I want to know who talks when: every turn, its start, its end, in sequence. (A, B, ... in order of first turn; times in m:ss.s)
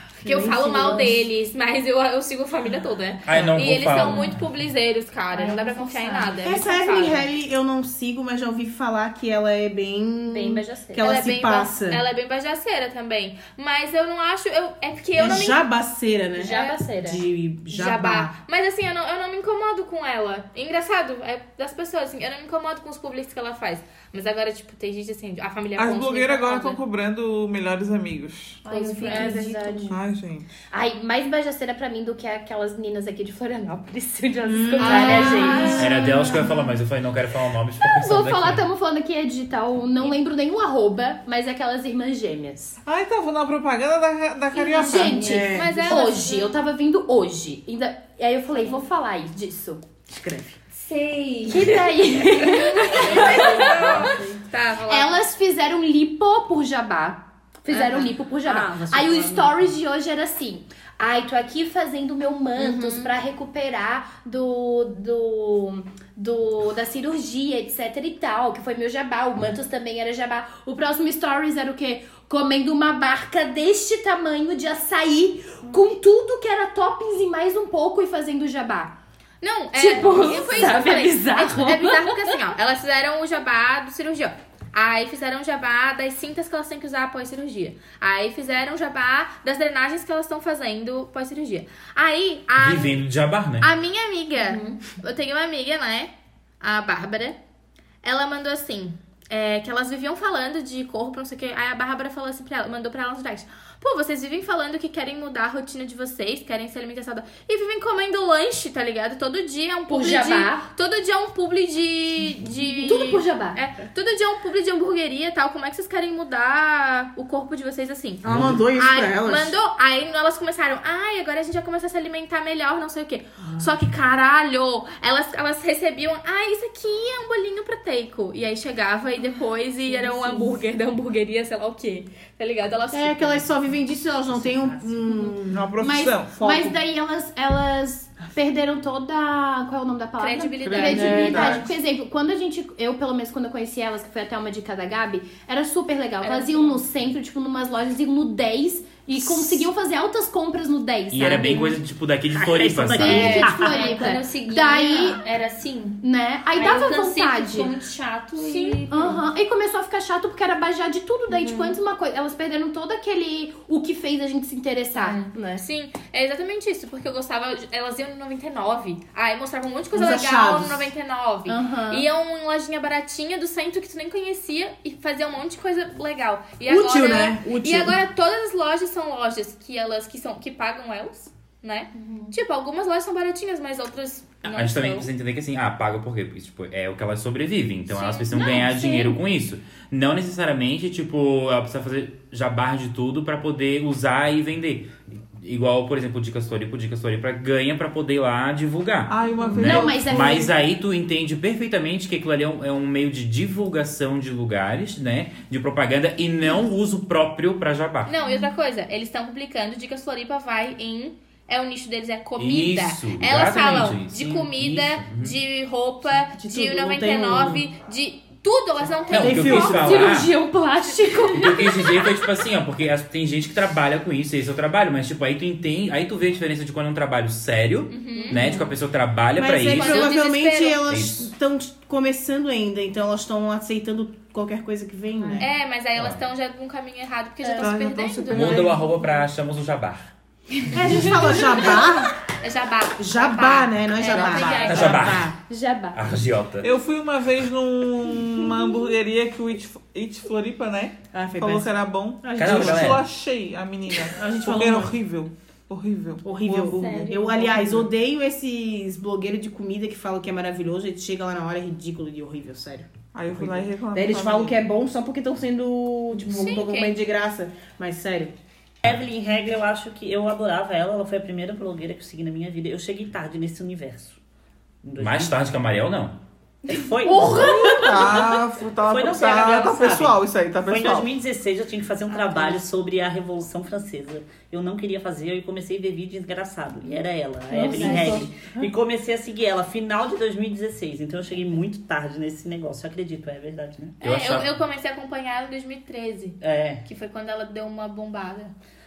0:00.2-0:01.0 A
0:00.2-0:01.2 B
0:00.2-0:07.2 C
0:03.2-0:04.4 D
0:05.3-0:06.3 E
0:05.4-0:06.2 B
0:06.4-0:12.0 A
0:10.3-0:11.1 B
0:11.0-0:15.6 C
0:15.2-0:18.4 A
0:16.4-0:17.2 B
0:17.7-0:26.8 C
0:25.7-0:28.6 F
0:28.6-0:30.0 E
0:28.7-0:30.0 B
0:29.0-0:29.4 C
0:29.9-0:30.5 F
0:30.7-0:36.4 B
0:34.4-0:35.9 A
0:34.8-0:35.9 C
0:35.1-0:35.8 E
0:35.8-0:38.6 D
0:37.8-0:42.8 B
0:42.8-0:45.4 F
0:44.6-0:49.8 B
0:44.7-0:46.0 E
0:45.2-0:45.7 A
0:45.5-0:46.5 C
0:50.1-0:50.4 A
0:50.7-0:51.8 E
0:51.5-0:54.2 B
0:52.4-0:54.4 E
0:52.4-0:55.2 C
0:54.8-1:19.0 B
0:57.7-0:59.7 G
1:02.6-1:03.1 C
1:19.4-1:33.0 C
1:19.7-1:22.4 B
1:32.6-1:33.7 D
1:33.6-1:36.1 C
1:34.4-1:34.8 B
1:36.6-1:37.4 C
1:38.0-2:13.5 C
1:49.9-1:50.7 B
1:52.7-1:53.6 B
1:58.2-1:59.6 A
1:58.3-1:58.6 D
2:09.9-2:10.5 B
2:12.9-2:15.7 A
2:14.3-2:15.3 G
2:15.5-2:16.5 F
2:15.8-2:31.8 B
2:16.4-2:16.7 A
2:20.2-2:21.5 C
2:20.6-2:21.7 F
2:20.7-2:21.6 A
2:26.2-2:26.8 C
2:31.1-2:33.4 D
2:32.3-2:33.9 G
2:33.0-2:35.2 B
2:33.1-2:39.2 E
2:36.0-2:37.7 B
2:38.4-2:38.8 C
2:38.9-2:45.6 B
2:41.3-2:41.8 E
2:45.0-2:45.3 E
2:45.6-3:05.1 C
2:49.9-2:50.9 A
2:51.4-2:52.0 B
2:56.6-2:58.0 A
3:02.0-3:02.3 B
3:04.4-3:28.1 D
3:07.9-3:08.5 C
3:08.3-3:09.1 B
3:19.1-3:20.1 F
3:19.6-3:20.6 B
3:28.0-3:39.9 C
3:32.4-3:35.4 D
3:36.3-3:37.7 A
3:39.1-3:40.3 D
3:39.1-3:40.1 A
3:39.5-3:42.1 B
3:41.2-3:50.2 D
3:47.9-3:48.5 C
3:48.1-3:48.7 B
3:49.3-3:55.5 A
3:49.7-3:50.8 C
3:50.9-3:51.3 D
3:55.4-3:58.7 C
3:55.9-3:56.2 D
3:57.4-3:57.7 B
3:57.6-3:58.8 A
3:58.3-4:00.1 D
4:00.7-4:02.1 A
4:02.4-4:05.2 C
4:03.0-4:05.3 A
4:04.1-4:06.0 B
4:04.6-4:05.3 D
4:05.9-4:06.7 D
4:06.6-4:16.8 F
4:11.1-4:13.0 A
4:12.4-4:13.1 D
4:14.0-4:14.9 A
4:16.2-4:28.4 A
4:16.6-4:17.7 E
4:17.0-4:17.6 B
4:23.1-4:24.6 F
4:26.3-4:27.0 C
4:28.8-4:34.2 G
4:34.8-4:35.4 G
4:35.0-4:36.2 D
4:36.7-4:38.2 G
4:37.0-4:38.1 B
4:37.3-4:41.1 F
4:38.8-4:54.0 G
4:47.5-4:48.3 B
4:47.6-4:48.3 A
4:54.0-4:58.5 C
4:54.0-4:54.5 D
4:56.4-4:56.8 G